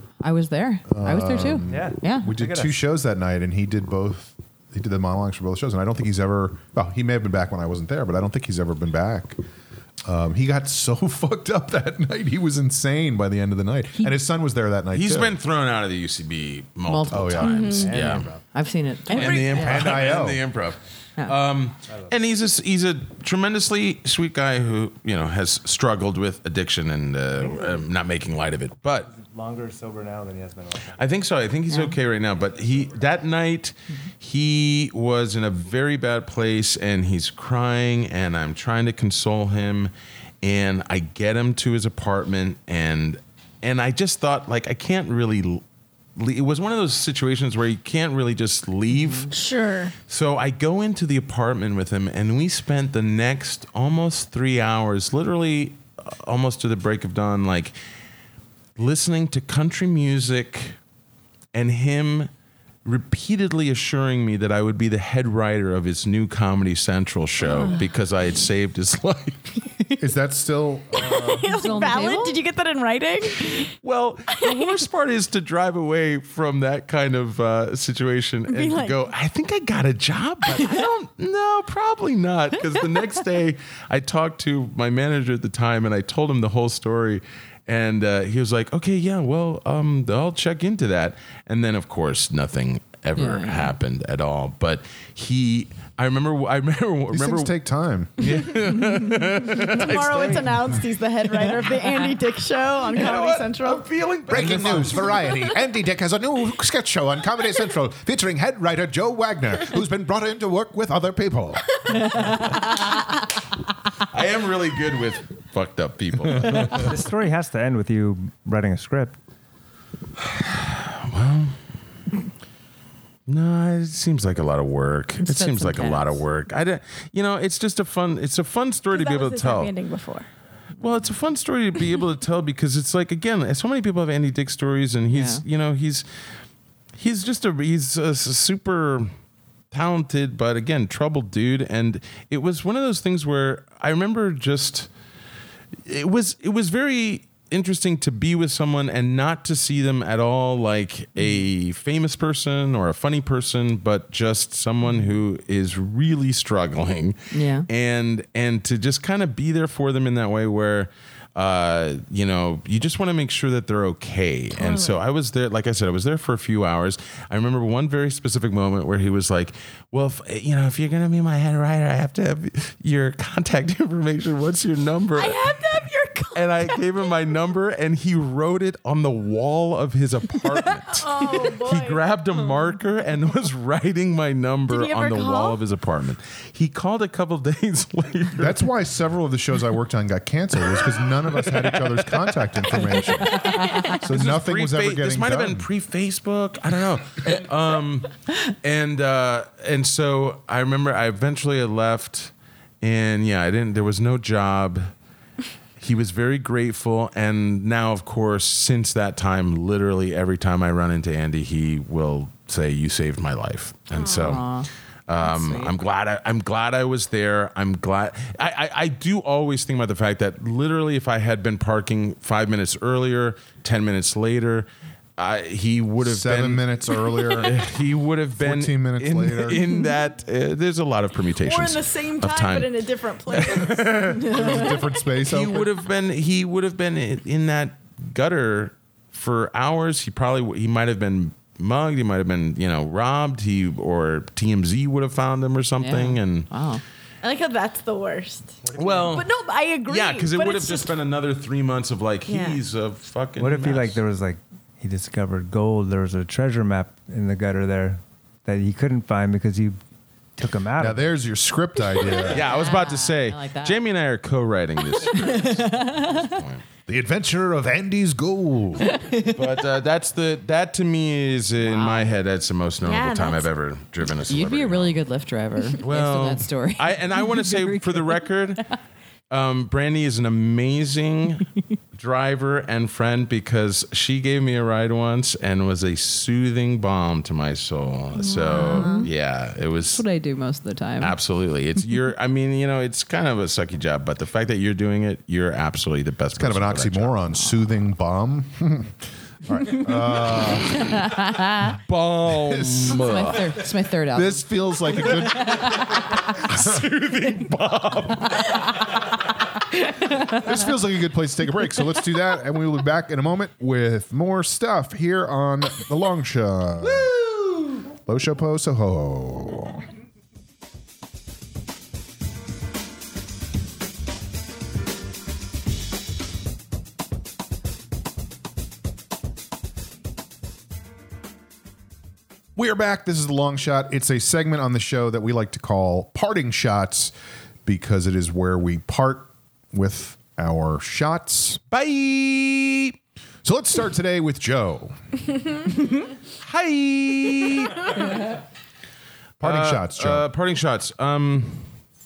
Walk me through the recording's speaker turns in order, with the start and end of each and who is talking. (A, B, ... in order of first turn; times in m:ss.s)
0:00.2-0:02.3 A
0:00.9-0:09.4 B
0:01.6-0:02.8 C
0:10.0-0:15.3 B
0:14.9-0:18.3 D
0:16.8-0:17.7 A
0:17.1-0:17.5 B
0:17.4-0:17.9 E
0:17.8-0:18.4 C
0:18.4-0:19.8 A
0:19.1-0:20.0 E
0:19.1-0:29.1 D
0:19.5-0:20.4 B
0:29.1-0:30.9 C
0:31.0-0:45.6 D
0:31.7-0:31.9 A
0:46.2-0:49.3 D
0:48.9-0:49.3 A
0:49.3-0:49.9 E
0:50.1-0:57.7 D
0:58.8-1:00.8 D
1:01.5-1:02.3 D
1:02.8-1:09.4 D
1:10.0-1:11.4 B
1:10.9-1:13.7 E
1:11.4-1:12.4 A
1:13.8-1:37.5 D
1:14.4-1:14.7 E
1:18.5-1:19.0 E
1:33.2-1:33.7 A
1:37.1-1:38.3 B
1:38.2-1:40.7 D
1:39.6-1:43.8 E
1:42.9-1:45.3 D
1:44.3-1:51.8 B
1:44.4-1:44.9 E
1:52.0-1:52.6 A
1:54.1-1:56.8 D
1:56.7-1:59.2 C
2:00.2-2:01.5 D
2:03.3-2:09.7 D
2:05.2-2:06.2 A
2:08.9-2:10.3 E
2:10.8-2:16.1 D
2:15.1-2:15.4 A
2:17.0-2:19.1 D
2:19.7-2:24.9 D
2:25.8-2:55.5 D
2:31.2-2:31.4 A
2:34.8-2:35.1 A
2:37.3-2:37.7 A
2:44.6-2:44.9 E
2:55.2-2:57.1 E
2:56.3-3:08.6 D
3:00.9-3:02.0 E
3:04.7-3:05.6 E
3:08.4-3:15.7 B
3:11.5-3:12.0 D
3:13.2-3:24.9 D
3:13.4-3:14.0 A
3:25.8-3:34.4 D
3:33.9-3:34.4 E
3:34.2-3:34.7 A
3:35.1-3:46.6 D
3:35.2-3:35.7 A
3:46.0-3:47.6 B
3:47.4-3:52.7 D
3:48.4-3:49.6 B
3:51.4-3:55.0 E
3:53.3-4:06.5 D
3:54.2-3:55.7 B
4:05.8-4:06.8 A
4:07.2-4:10.9 E
4:08.7-4:09.3 D
4:09.8-4:14.0 D
4:12.3-4:12.6 E
4:13.4-4:19.8 C
4:20.4-4:21.1 C
4:20.8-4:22.5 B
4:22.3-4:23.8 A
4:22.3-4:26.6 D
4:25.0-4:26.3 A
4:26.9-4:28.9 B
4:28.8-4:29.4 A
4:29.2-4:35.0 D
4:31.6-4:32.1 A
4:32.8-4:33.5 E
4:34.3-4:38.7 A
4:35.8-4:38.6 D
4:39.3-4:50.0 D
4:48.3-4:49.1 A
4:48.4-4:49.0 E
4:49.9-4:51.2 A
4:51.0-4:57.2 D
4:56.3-5:01.0 B
5:00.9-5:01.8 A
5:01.8-5:03.5 D
5:02.3-5:03.0 B
5:02.9-5:04.4 A
5:04.1-5:06.0 B
5:05.1-5:06.0 A
5:06.3-5:08.5 D
5:10.3-5:17.1 B
5:16.8-5:17.6 D
5:18.0-5:19.8 B
5:32.6-5:37.1 B
5:37.6-5:41.6 B
5:41.7-5:43.0 D
5:43.4-5:45.0 B
5:46.4-5:48.0 D
5:49.4-5:51.7 D
5:49.4-5:50.2 B